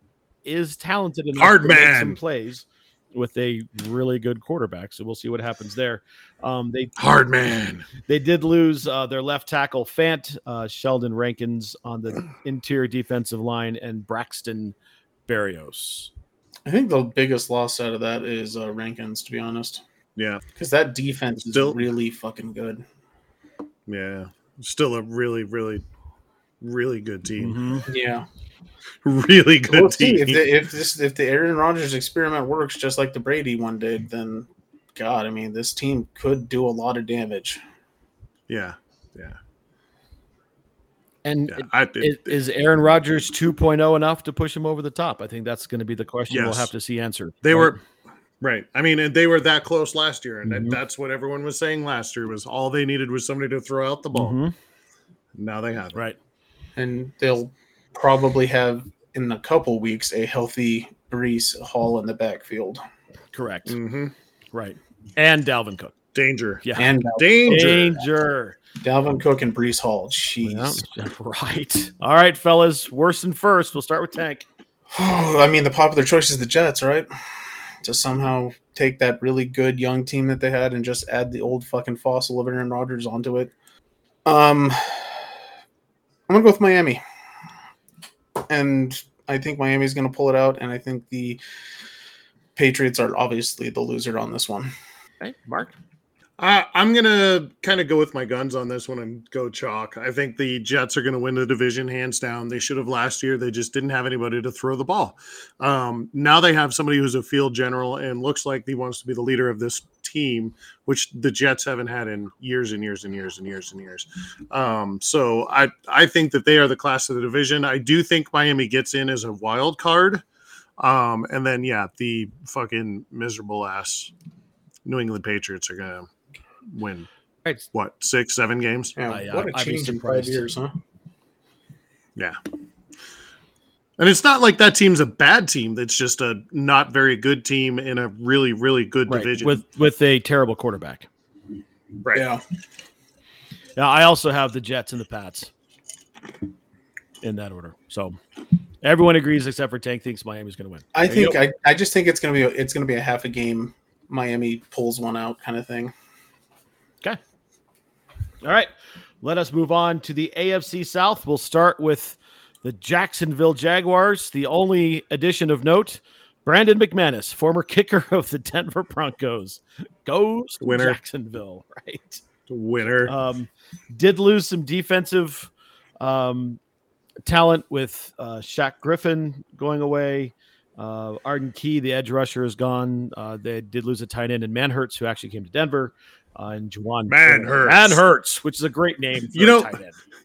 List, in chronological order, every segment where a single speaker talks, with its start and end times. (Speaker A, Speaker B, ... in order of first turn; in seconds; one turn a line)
Speaker A: 0.4-6.9
Speaker B: 1.4-2.2
Speaker B: 7.0-7.9
Speaker A: 8.1-14.7
Speaker A: 15.3-16.1
Speaker C: 16.6-19.8
Speaker B: 20.1-20.4
Speaker C: 20.5-22.8
Speaker B: 21.3-21.8
Speaker B: 23.9-25.8
Speaker B: 26.6-27.6
Speaker A: 27.4-27.9
Speaker C: 27.9-28.2
Speaker B: 29.0-30.5
Speaker C: 29.6-37.6
Speaker B: 38.5-39.4
Speaker A: 41.2-47.8
Speaker B: 41.5-42.4
Speaker B: 46.3-46.7
Speaker B: 47.4-47.8
Speaker B: 48.4-54.4
Speaker A: 50.5-50.8
Speaker A: 54.1-54.5
Speaker B: 55.3-56.0
Speaker C: 56.8-62.8
Speaker A: 63.3-63.8
Speaker B: 63.7-64.1
Speaker A: 64.5-65.9
Speaker B: 66.1-68.0
Speaker A: 66.6-68.5
Speaker C: 66.8-67.8
Speaker C: 68.8-70.8
Speaker A: 70.4-74.4
Speaker C: 74.9-77.1
Speaker C: 77.8-83.5
Speaker C: 84.2-85.3
Speaker C: 86.3-87.0
Speaker C: 88.5-91.4
Speaker C: 92.5-94.7
Speaker A: 95.2-95.7
Speaker B: 96.4-120.2
Speaker B: 120.8-124.1
Speaker B: 124.8-126.1
Speaker B: 126.7-127.1
Speaker B: 127.7-128.9
Speaker C: 129.0-130.8
Speaker A: 129.1-130.4
Speaker B: 134.0-139.6
Speaker A: 139.1-141.1
Speaker B: 142.0-142.3
Speaker C: 142.1-142.4
Speaker A: 143.8-145.5
Speaker A: 147.2-148.2
Speaker A: 148.8-151.3
Speaker C: 150.9-155.9
Speaker A: 158.4-158.7
Speaker A: 159.2-172.2
Speaker B: 170.6-171.0
Speaker B: 172.5-173.1
Speaker A: 173.1-176.6
Speaker A: 177.2-189.9
Speaker B: 187.1-188.0
Speaker B: 189.3-189.8